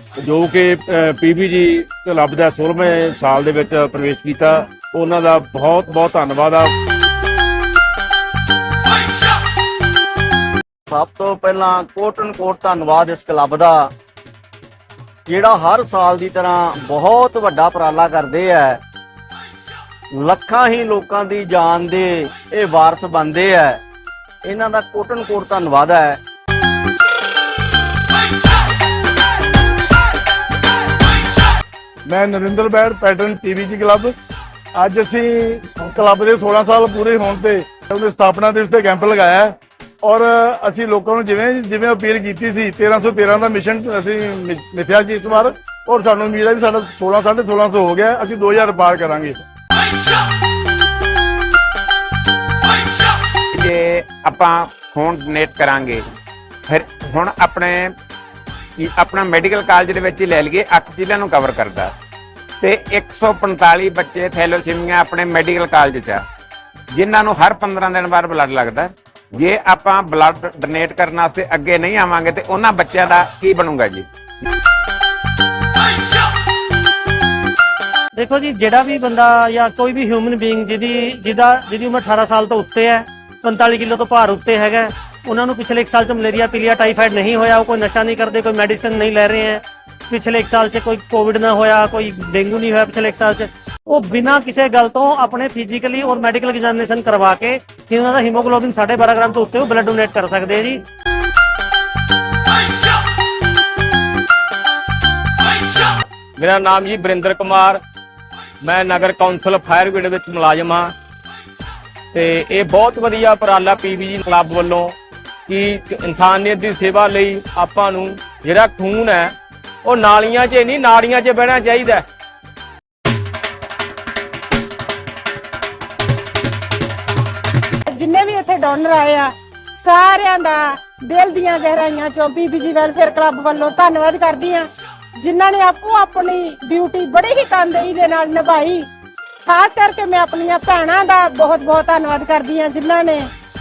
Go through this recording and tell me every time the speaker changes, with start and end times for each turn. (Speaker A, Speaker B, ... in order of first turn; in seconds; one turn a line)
Speaker A: 0.2-6.7
Speaker B: 10.9-13.9
Speaker B: 15.3-18.8
Speaker B: 20.2-23.8
Speaker B: 24.4-26.2
Speaker C: 32.0-34.1
Speaker C: 34.7-49.4
Speaker D: 53.5-56.0
Speaker D: 56.7-57.9
Speaker D: 58.8-61.9
Speaker D: 62.6-66.2
Speaker D: 66.9-74.0
Speaker E: 78.2-100.8
Speaker F: 106.4-107.8
Speaker F: 108.6-110.9
Speaker F: 112.1-114.9
Speaker F: 115.5-119.3
Speaker F: 119.8-122.0
Speaker G: 127.9-138.9
Speaker G: 139.4-143.3